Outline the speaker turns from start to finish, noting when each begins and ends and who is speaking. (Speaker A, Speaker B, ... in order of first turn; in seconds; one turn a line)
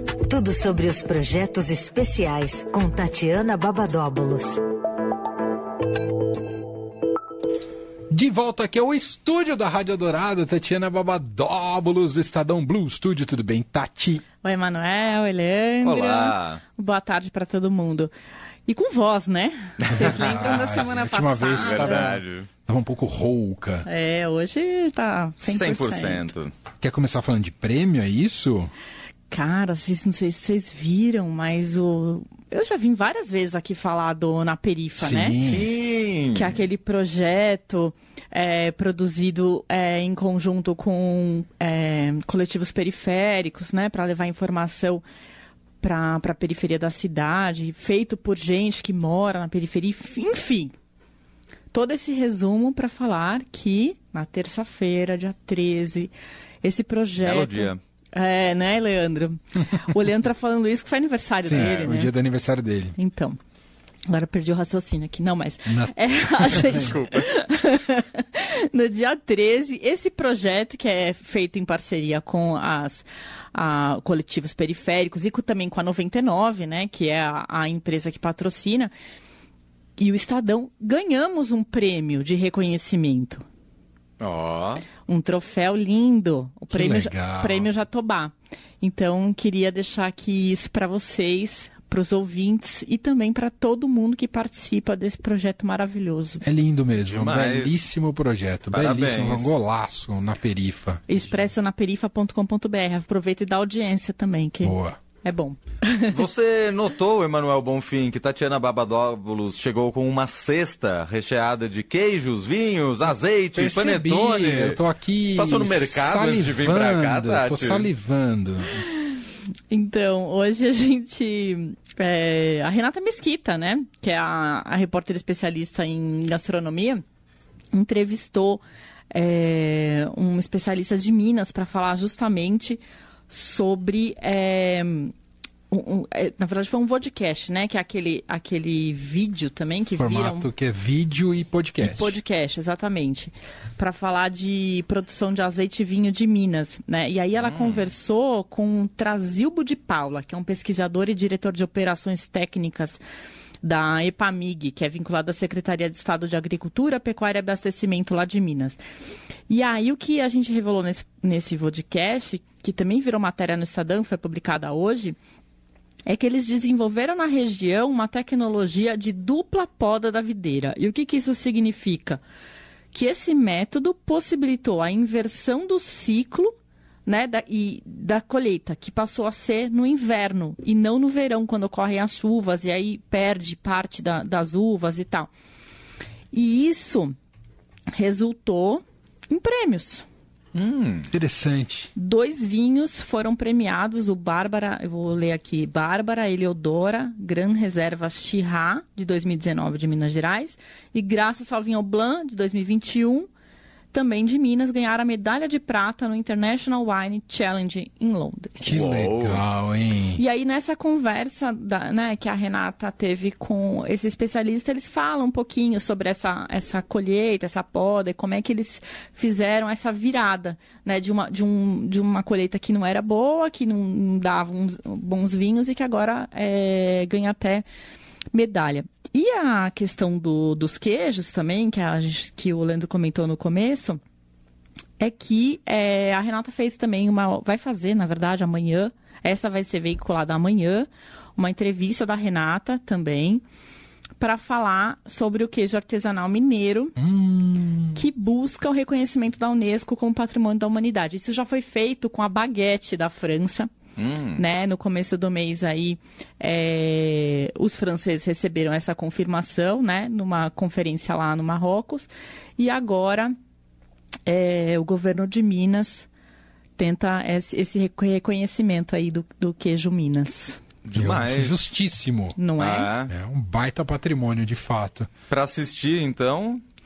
Speaker A: 0.2-4.6
Speaker B: 8.1-14.2
Speaker C: 14.4-18.1
Speaker D: 15.8-16.6
Speaker C: 18.6-22.1
Speaker D: 19.9-20.9
Speaker B: 19.9-23.9
Speaker D: 21.6-22.5
Speaker C: 23.8-26.2
Speaker D: 25.4-26.5
Speaker B: 26.8-28.7
Speaker C: 29.3-35.4
Speaker B: 35.0-35.7
Speaker D: 35.4-36.5
Speaker C: 36.3-45.0
Speaker C: 45.8-50.7
Speaker C: 51.7-62.1
Speaker D: 57.2-57.8
Speaker B: 61.4-63.0
Speaker C: 63.0-63.4
Speaker C: 64.1-78.9
Speaker B: 65.7-66.9
Speaker D: 66.7-67.3
Speaker C: 80.0-83.4
Speaker D: 84.2-84.8
Speaker C: 85.0-96.4
Speaker B: 86.7-87.7
Speaker B: 96.4-101.3
Speaker D: 97.0-97.8
Speaker D: 98.7-99.5
Speaker C: 101.1-106.2
Speaker B: 104.6-105.0
Speaker D: 106.1-114.8
Speaker B: 113.5-118.8
Speaker D: 115.3-117.9
Speaker C: 119.7-127.0
Speaker C: 127.7-135.1
Speaker C: 135.7-140.5
Speaker B: 139.9-142.2
Speaker C: 141.8-153.0
Speaker D: 147.4-147.9
Speaker C: 153.6-158.8
Speaker C: 159.5-165.2
Speaker C: 166.1-172.2
Speaker C: 172.9-176.5
Speaker C: 177.1-185.3
Speaker C: 186.3-187.1
Speaker C: 187.9-190.0
Speaker D: 190.5-191.1
Speaker B: 191.1-191.9
Speaker C: 191.9-203.3
Speaker C: 203.9-208.9
Speaker B: 208.6-210.2
Speaker D: 208.7-209.4
Speaker C: 210.2-227.6
Speaker C: 228.3-234.0
Speaker C: 235.0-243.4
Speaker C: 244.2-246.9
Speaker B: 247.0-248.0
Speaker C: 247.9-253.7
Speaker D: 254.0-254.4
Speaker C: 254.3-263.3
Speaker C: 264.2-266.1
Speaker C: 266.8-270.6
Speaker D: 270.8-271.6
Speaker B: 270.9-272.4
Speaker C: 272.4-272.9
Speaker D: 272.6-273.1
Speaker B: 273.1-275.1
Speaker D: 275.3-276.6